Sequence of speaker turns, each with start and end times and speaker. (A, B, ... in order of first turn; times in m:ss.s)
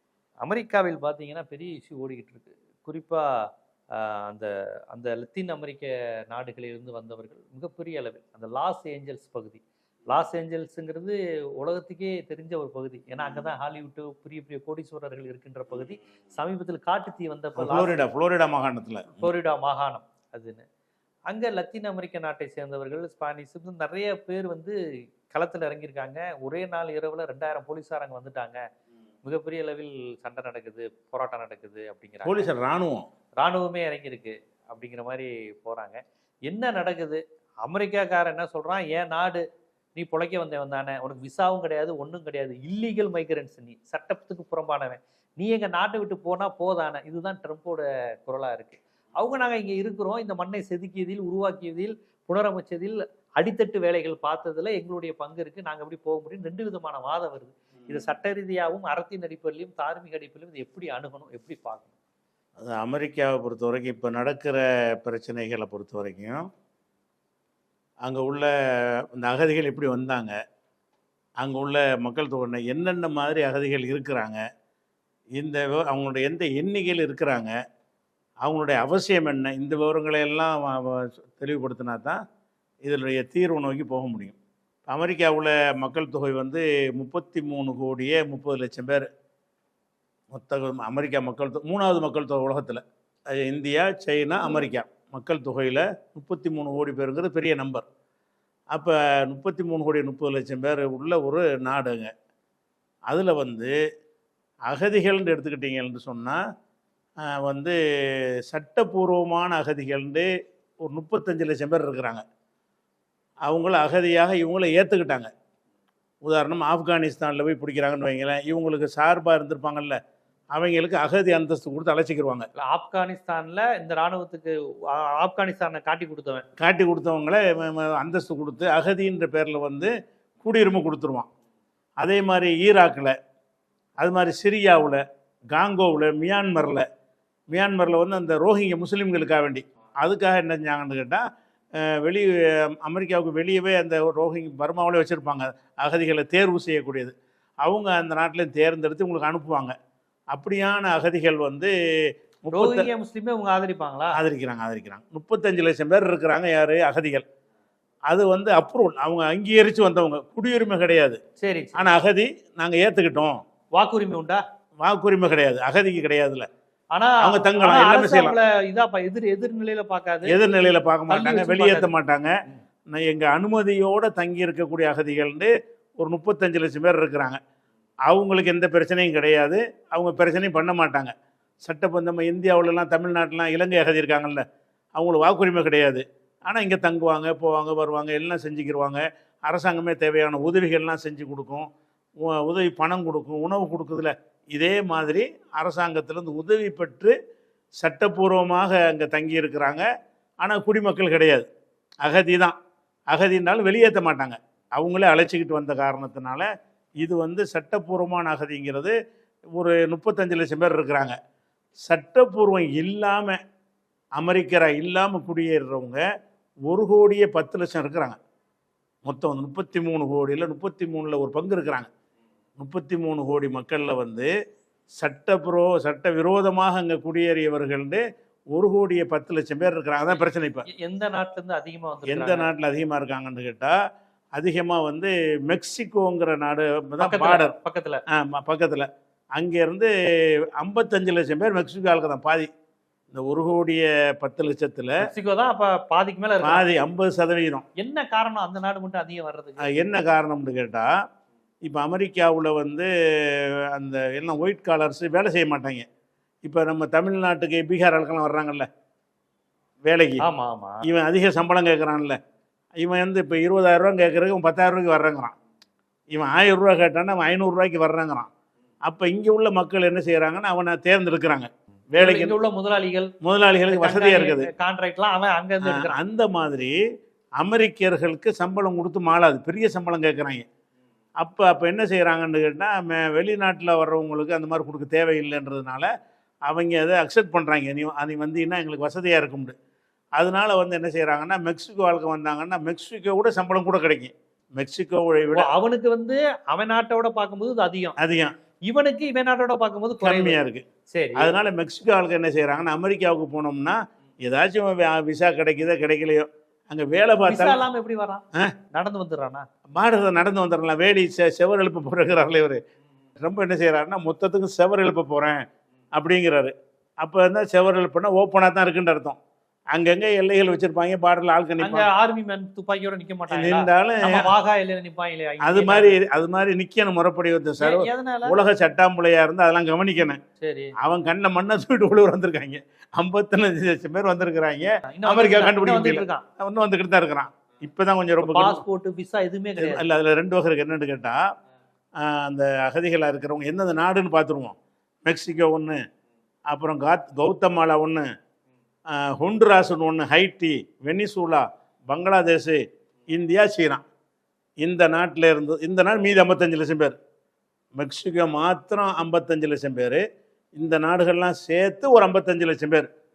0:00.4-0:18.0 A
0:17.6-0:19.2 B
0:19.2-0:20.6 A
0:21.3-0:24.8 A
0:25.3-0:28.6 A
0:29.2-0:32.5 A
0:32.2-0:33.0 B
0:33.4-0:39.4 A
0:40.0-1:01.9 A
1:02.6-1:06.5 B
1:08.0-1:10.3 B
1:11.4-1:14.4 B
1:15.4-1:17.5 B
1:18.4-1:22.2 B
1:22.8-1:24.4 B
1:24.9-1:29.0 B
1:30.3-1:37.8 B
1:38.7-1:42.1 B
1:43.1-1:43.7 B
1:44.7-1:46.4 B
1:47.3-1:47.7 B
1:48.5-1:50.3 B
1:50.8-1:52.2 B
1:53.4-1:55.3 B
1:56.2-2:00.0 B
2:00.5-2:02.5 B
2:02.6-2:06.4 A
2:06.6-2:11.3 B
2:12.0-2:13.1 B
2:14.0-2:15.0 B
2:15.5-2:16.8 B
2:17.5-2:21.2 B
2:21.8-2:29.7 B
2:30.3-2:31.7 B
2:32.4-2:32.9 B
2:32.5-2:34.2 A
2:34.1-2:37.2 B
2:38.1-2:41.2 B
2:41.4-2:41.8 A
2:41.7-2:43.4 B
2:43.7-2:44.4 A
2:44.8-2:46.5 B
2:46.9-2:50.4 A
2:47.2-2:48.4 B
2:50.2-2:52.3 B
2:51.1-2:51.9 A
2:52.9-2:57.4 B
2:58.1-3:04.4 B
3:05.0-3:11.7 B
3:12.2-3:17.1 B
3:17.8-3:19.8 B
3:20.4-3:21.5 B
3:22.0-3:22.6 B
3:23.1-3:26.5 B
3:27.0-3:28.9 B
3:29.6-3:31.2 B
3:31.8-3:33.4 B
3:34.2-3:36.0 B
3:36.7-3:38.2 B
3:39.0-3:41.9 B
3:42.6-3:44.3 B
3:45.0-3:50.6 B
3:50.7-3:52.5 A
3:52.1-3:53.8 B
3:54.4-3:57.5 B
3:57.0-3:58.0 A
3:58.1-3:59.9 B
4:00.6-4:02.5 B
4:03.1-4:05.0 B
4:05.0-4:06.6 A
4:06.4-4:07.6 B
4:07.8-4:09.7 A
4:09.6-4:10.9 B
4:11.6-4:15.8 B
4:16.4-4:18.7 B
4:19.8-4:20.2 B
4:20.2-4:20.8 A
4:20.8-4:22.2 B
4:22.8-4:25.3 B
4:26.1-4:28.3 B
4:28.8-4:32.3 B
4:32.0-4:33.1 A
4:33.2-4:34.5 B
4:33.7-4:36.0 A
4:35.6-4:36.7 B
4:37.4-4:40.4 B
4:41.2-4:45.9 B
4:46.5-4:49.5 B
4:50.2-4:55.5 B
4:55.3-4:58.0 A
4:58.0-4:58.3 B
4:58.7-5:00.4 A
5:00.0-5:07.6 B
5:00.9-5:01.3 A
5:07.2-5:09.4 A
5:09.7-5:12.6 B
5:13.2-5:15.4 B
5:15.9-5:19.2 B
5:19.7-5:21.9 B
5:21.6-5:26.0 A
5:23.3-5:24.3 B
5:25.4-5:30.2 B
5:27.6-5:28.4 A
5:30.4-5:30.7 A
5:30.8-5:38.6 B
5:34.9-5:36.2 A
5:38.2-5:39.8 A
5:39.6-5:41.2 B
5:42.0-5:45.8 B
5:46.5-5:48.1 B
5:48.9-5:53.8 B
5:54.6-5:57.0 B
5:57.7-6:00.0 B
6:00.6-6:02.9 B